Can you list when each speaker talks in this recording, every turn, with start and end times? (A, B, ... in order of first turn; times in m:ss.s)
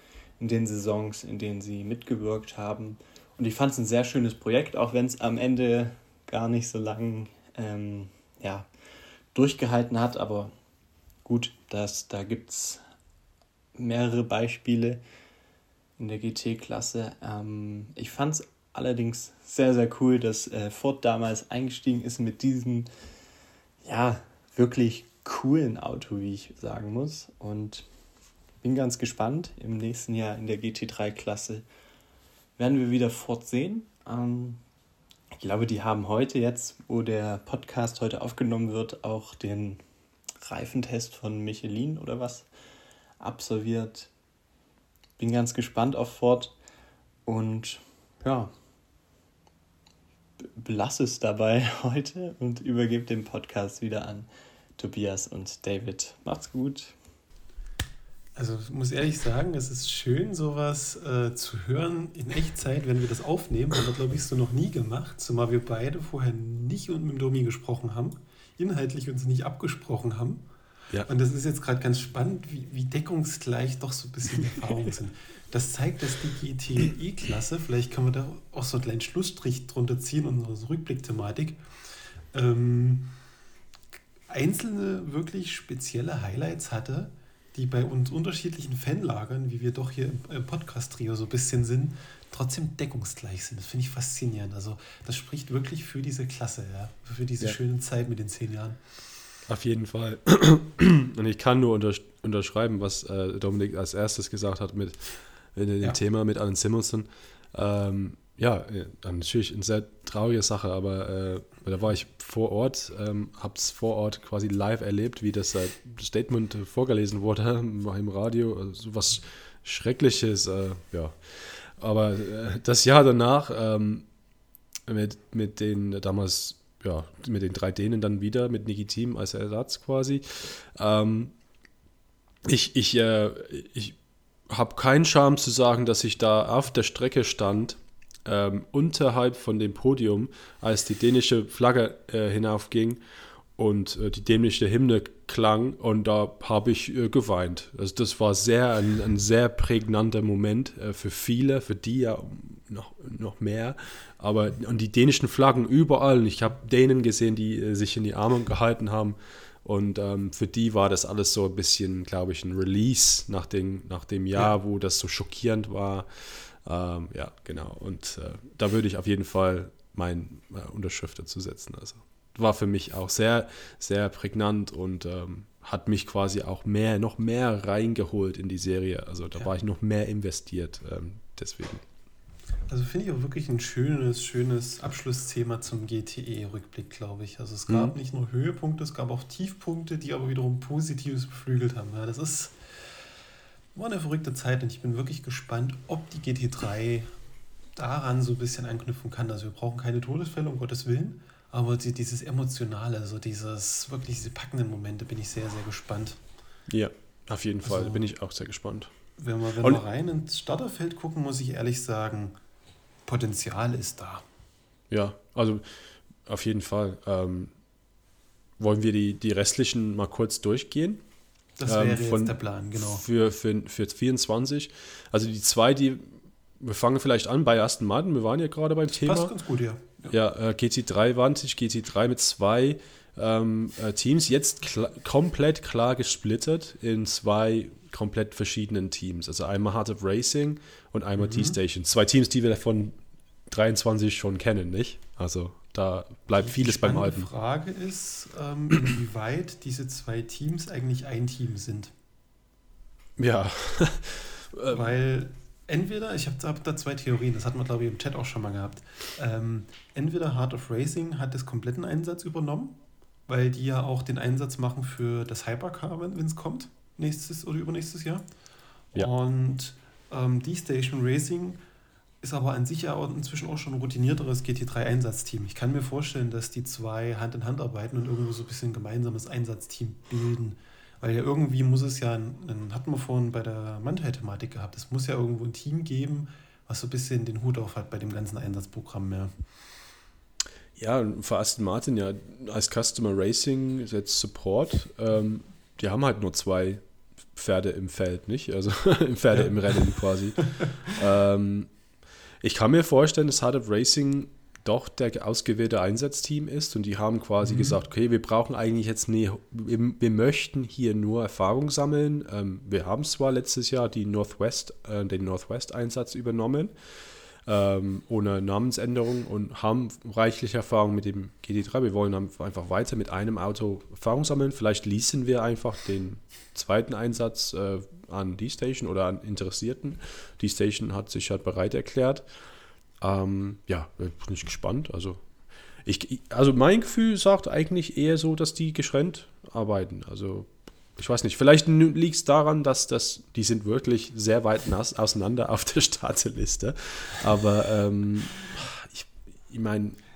0:00.4-0:08.7 A
0:09.3-0:10.5 A
0:11.2-0:12.8 A
0:13.8-0:15.0 A
0:16.0-0:22.9 A
0:23.8-0:27.9 A
0:28.6-0:31.6 A
0:32.6-0:34.6 A
0:35.3-0:39.8 A
0:40.4-0:42.5 A
0:43.2-0:44.1 A
0:45.2-0:46.5 A
0:47.2-0:48.5 A
0:50.4-0:56.9 A
0:58.4-1:10.4 B
1:11.0-1:21.6 B
1:22.3-1:23.1 B
1:24.3-1:38.8 B
1:39.5-2:04.0 C
2:04.9-2:11.3 C
2:12.4-2:14.0 C
2:14.5-2:23.0 C
2:23.6-3:01.8 C
3:02.7-3:12.6 B
3:07.7-3:07.9 C
3:13.7-3:17.1 B
3:17.8-3:26.2 B
3:26.7-3:28.9 C
3:27.6-3:28.0 B
3:29.2-3:32.3 B
3:33.0-3:34.2 B
3:34.9-3:35.7 C
3:36.2-3:37.5 C
3:38.6-3:41.0 C
3:41.6-3:43.0 B
3:41.6-3:49.3 C
3:48.9-3:50.1 B
3:50.1-4:03.0 C
4:01.2-4:01.6 B
4:03.5-4:07.3 C
4:06.3-4:11.9 B
4:13.2-4:14.9 C
4:14.7-4:28.2 B
4:28.9-4:31.6 B
4:32.2-4:49.3 B
4:50.8-4:56.8 C
4:57.3-5:01.7 C
5:02.4-5:16.7 C
5:07.4-5:07.8 B
5:17.4-5:32.2 C
5:33.0-5:35.2 C
5:35.8-5:50.0 C